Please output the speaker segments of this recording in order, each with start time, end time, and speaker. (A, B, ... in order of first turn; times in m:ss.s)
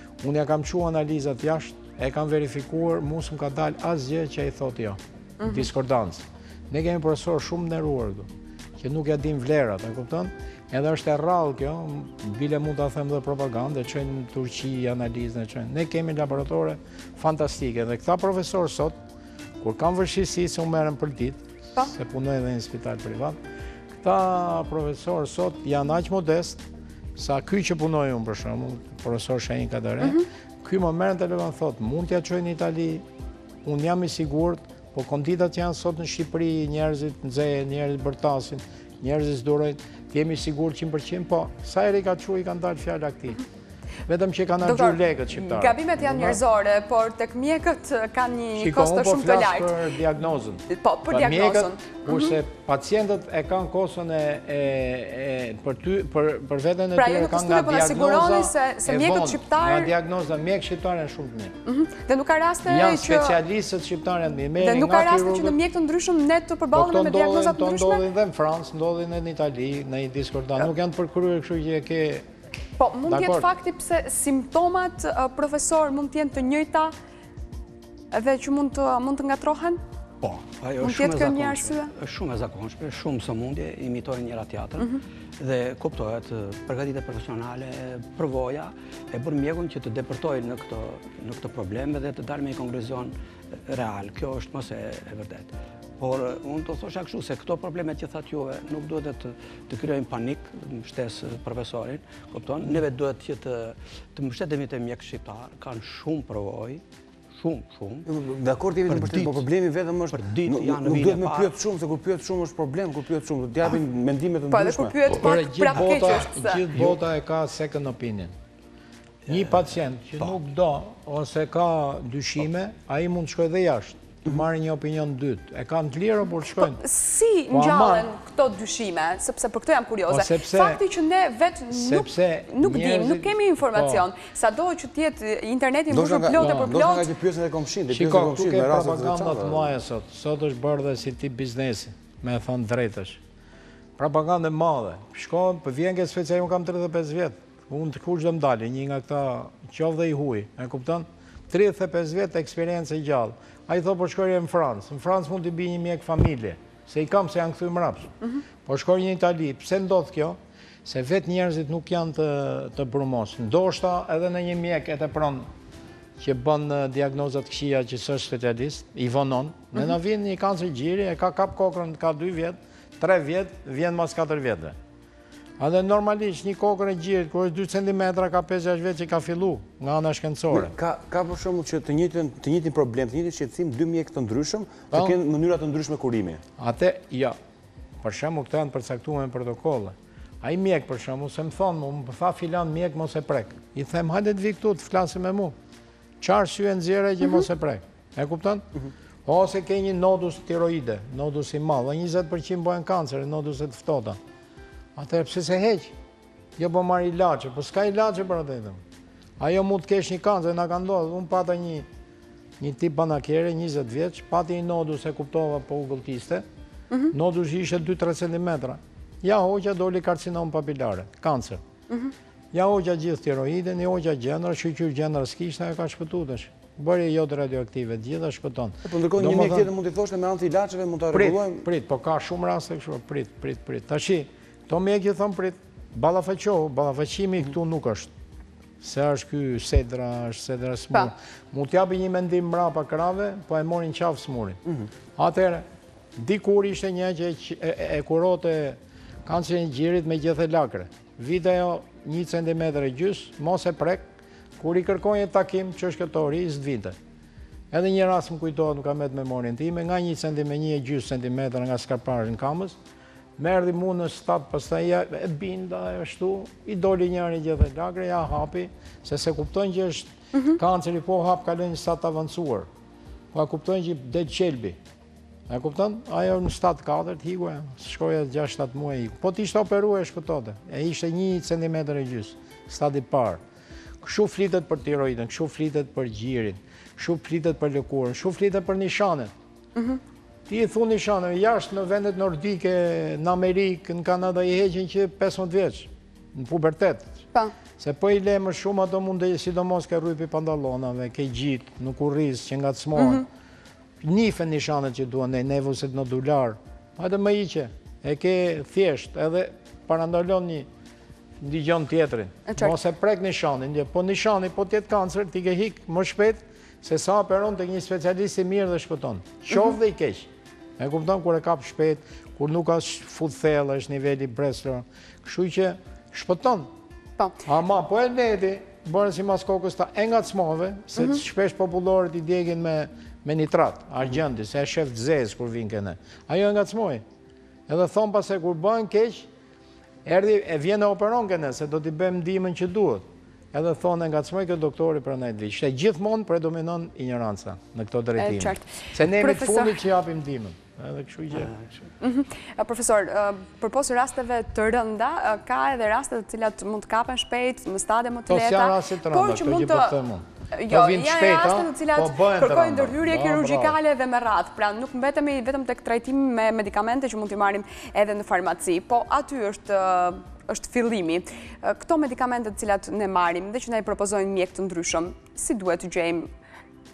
0:00.2-0:19.0 A
0:05.4-0:05.7 B
0:19.6-0:23.4 A
0:23.9-0:26.6 A
0:27.2-0:33.0 A
0:33.6-0:43.4 A
0:44.1-0:46.4 A
0:44.6-0:49.8 B
0:48.6-1:01.5 A
0:50.7-0:52.3 B
0:57.0-0:59.9 B
1:01.6-1:03.4 B
1:02.6-1:05.6 A
1:04.6-1:08.0 B
1:06.7-1:12.2 A
1:12.8-1:16.9 B
1:13.1-1:13.5 A
1:18.1-1:19.8 B
1:20.2-1:46.8 C
1:20.8-1:21.9 B
1:47.3-1:48.1 C
1:48.1-1:55.0 D
1:48.8-1:49.4 C
1:50.1-1:51.5 C
1:54.5-1:56.6 B
1:55.1-1:58.3 A
1:59.3-2:06.8 A
2:06.6-2:17.1 B
2:07.5-2:08.1 A
2:10.1-2:10.8 A
2:11.7-2:14.1 A
2:15.9-2:19.7 D
2:16.4-2:16.7 A
2:17.9-2:23.2 A
2:24.0-2:38.1 A
2:38.6-2:45.5 A
2:46.2-2:54.8 A
2:55.6-3:00.7 A
3:00.5-3:06.4 D
3:06.6-3:07.4 A
3:08.0-3:15.5 A
3:16.2-3:18.6 A
3:19.2-3:24.2 A
3:25.0-3:25.9 A
3:26.6-3:28.8 A
3:29.4-3:31.9 A
3:32.6-3:36.4 A
3:37.1-3:41.6 A
3:42.5-3:49.7 A
3:48.8-3:51.6 D
3:51.1-3:58.1 A
3:58.8-4:04.6 A
4:05.2-4:05.6 A
4:06.2-4:14.1 A
4:14.6-4:17.0 A
4:17.7-4:22.8 A
4:23.4-4:32.7 A
4:33.3-4:34.8 A
4:35.5-4:43.4 A
4:44.0-4:49.3 A
4:50.5-4:57.2 A
4:57.8-5:03.3 A
5:04.0-5:10.7 A
5:11.4-5:26.7 A
5:27.4-5:37.0 A
5:37.7-5:39.3 A
5:40.0-5:51.5 A
5:48.2-5:49.8 B
5:51.3-5:51.8 C
5:52.0-6:00.0 B
5:58.3-6:03.8 A
6:00.5-6:16.3 B